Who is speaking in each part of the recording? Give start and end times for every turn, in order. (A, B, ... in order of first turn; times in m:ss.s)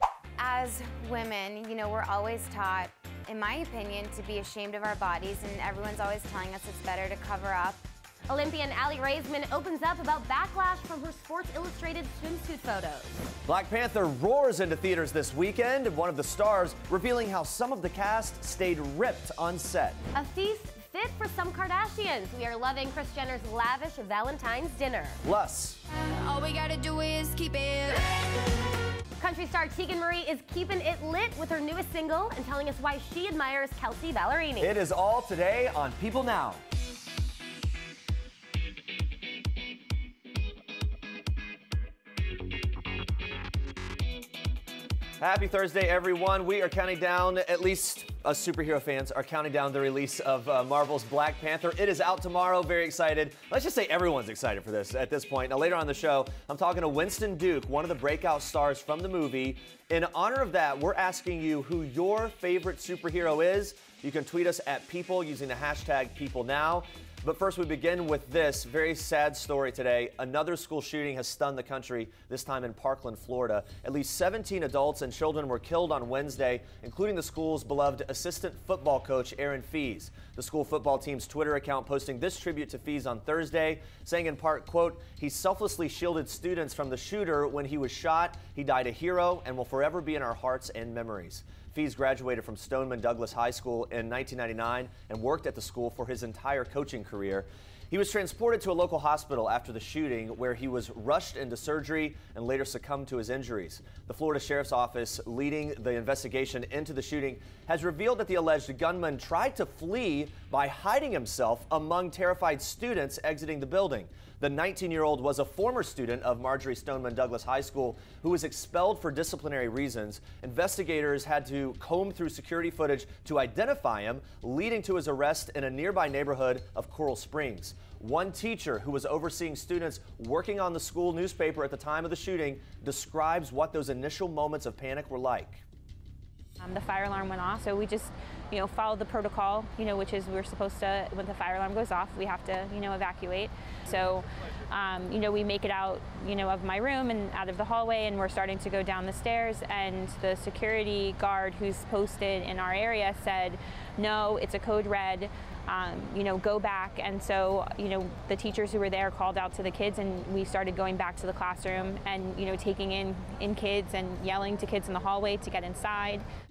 0:00.4-0:07.8 A
0:08.3-0:13.2 B
0:13.5-0:20.0 C
0:20.1-0:25.2 B
0:25.2-0:25.8 C
0:25.9-0:28.5 D
0:29.2-0:34.8 B
0:34.6-0:36.6 C
0:45.2-2:15.6 C
2:16.6-2:46.2 E